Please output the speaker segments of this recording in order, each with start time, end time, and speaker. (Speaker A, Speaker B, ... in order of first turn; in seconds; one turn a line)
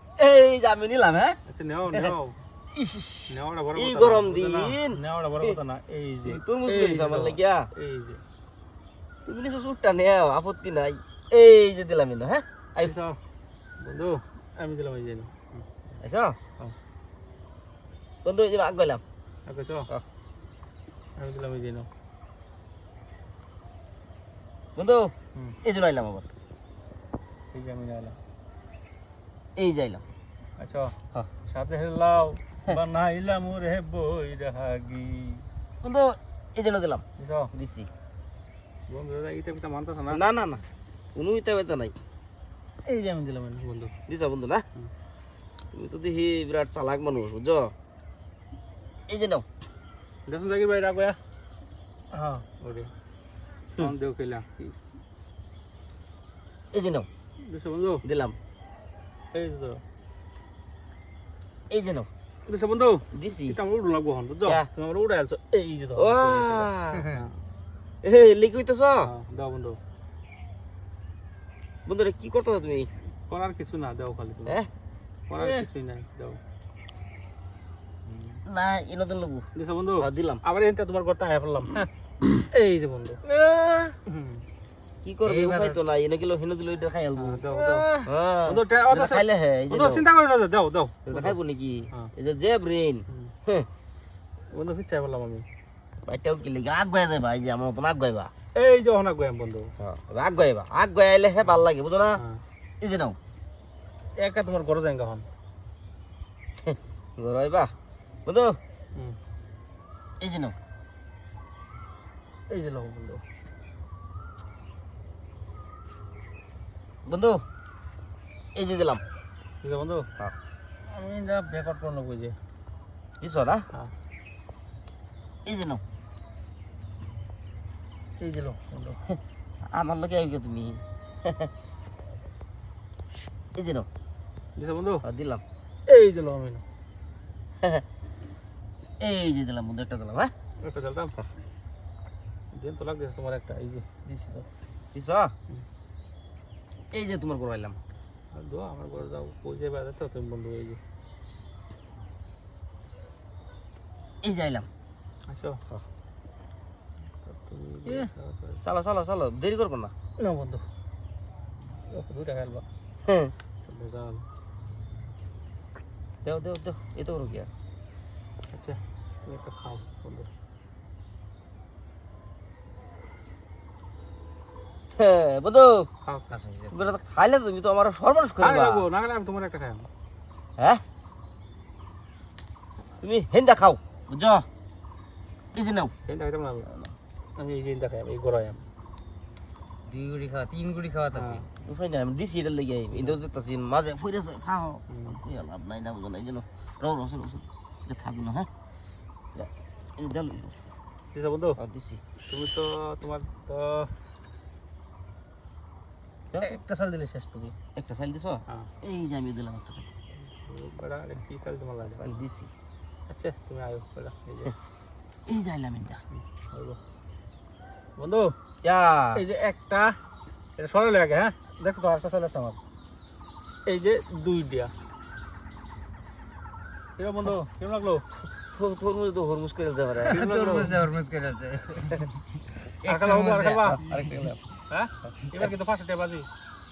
Speaker A: 0.2-1.4
Speaker B: 1.5-2.4
Speaker A: 2.7-5.5
Speaker B: 3.3-8.2
Speaker A: 6.3-7.7
Speaker A: 9.2-12.9
Speaker B: 12.8-13.2
Speaker B: 13.8-15.7
Speaker A: 16.0-16.4
Speaker A: 18.2-19.0
Speaker B: 19.5-19.9
Speaker B: 21.2-21.9
Speaker A: 24.8-26.3
Speaker B: 27.5-28.2
Speaker A: 29.6-30.0
Speaker B: 30.6-35.5
Speaker A: 35.8-37.9
Speaker B: 37.2-37.5
Speaker B: 38.9-40.2
Speaker A: 40.1-40.6
Speaker A: 41.1-42.0
Speaker B: 42.9-43.9
Speaker A: 44.1-44.6
Speaker A: 45.7-47.7
Speaker A: 49.1-49.5
Speaker B: 50.3-51.2
Speaker B: 52.1-52.9
Speaker B: 53.8-54.8
Speaker A: 56.7-57.1
Speaker B: 57.4-58.0
Speaker A: 58.0-58.4
Speaker B: 59.3-59.8
Speaker A: 61.7-62.1
Speaker B: 62.5-67.3
Speaker A: 63.1-63.6
Speaker A: 66.0-67.2
Speaker A: 68.0-69.1
Speaker B: 69.0-69.8
Speaker A: 71.9-72.9
Speaker B: 73.3-74.6
Speaker B: 75.3-76.4
Speaker B: 78.1-78.4
Speaker A: 78.5-79.5
Speaker B: 79.5-81.9
Speaker A: 80.0-80.4
Speaker B: 82.4-83.2
Speaker A: 83.3-84.0
Speaker B: 84.1-84.4
Speaker A: 85.0-87.4
Speaker C: 85.2-85.8
Speaker B: 87.2-91.4
Speaker A: 88.0-90.1
Speaker A: 91.1-93.7
Speaker B: 94.5-95.5
Speaker A: 96.1-98.3
Speaker B: 98.5-99.7
Speaker A: 99.8-102.2
Speaker B: 102.2-102.4
Speaker A: 102.8-103.2
Speaker B: 104.2-105.3
Speaker A: 106.6-107.7
Speaker A: 108.3-108.6
Speaker A: 110.2-110.6
Speaker B: 112.5-113.2
Speaker A: 117.1-117.4
Speaker A: 118.5-119.0
Speaker B: 119.6-120.1
Speaker B: 120.8-122.4
Speaker A: 123.2-123.7
Speaker A: 125.5-125.8
Speaker B: 128.2-129.0
Speaker A: 129.6-131.5
Speaker A: 133.6-133.9
Speaker B: 134.6-135.0
Speaker A: 135.0-135.4
Speaker B: 135.9-136.6
Speaker A: 139.0-140.3
Speaker B: 140.6-141.2
Speaker B: 142.5-144.5
Speaker A: 144.9-145.3
Speaker A: 146.9-147.8
Speaker B: 148.3-150.8
Speaker A: 154.2-154.7
Speaker B: 155.3-155.6
Speaker B: 157.2-158.6
Speaker A: 158.6-159.9
Speaker B: 160.2-160.6
Speaker B: 161.9-162.7
Speaker A: 163.1-163.3
Speaker B: 163.7-164.2
Speaker A: 166.2-167.5
Speaker B: 168.5-170.3
Speaker A: 174.9-175.9
Speaker B: 176.0-176.4
Speaker C: 176.3-176.8
Speaker A: 176.7-178.8
Speaker B: 178.4-179.9
Speaker A: 180.6-180.8
Speaker A: 183.0-184.5
Speaker A: 185.6-185.9
Speaker B: 186.1-186.7
Speaker B: 187.4-188.6
Speaker C: 189.9-191.4
Speaker B: 191.1-191.5
Speaker A: 191.6-198.5
Speaker B: 194.9-195.2
Speaker A: 199.3-200.6
Speaker B: 201.1-201.6
Speaker A: 201.6-202.0
Speaker B: 202.3-203.9
Speaker A: 206.3-206.6
Speaker B: 206.4-207.6
Speaker A: 207.8-209.9
Speaker B: 210.2-212.2
Speaker A: 211.9-212.5
Speaker B: 213.1-214.6
Speaker A: 215.3-216.0
Speaker B: 216.1-216.8
Speaker B: 218.0-218.4
Speaker A: 218.6-219.2
Speaker B: 219.1-220.0
Speaker B: 220.6-222.6
Speaker B: 223.7-224.7
Speaker B: 227.0-228.1
Speaker A: 228.4-230.2
Speaker C: 230.1-232.2
Speaker B: 230.1-230.8
Speaker B: 232.8-233.8
Speaker C: 232.8-234.3
Speaker A: 233.7-234.5
Speaker B: 234.7-236.3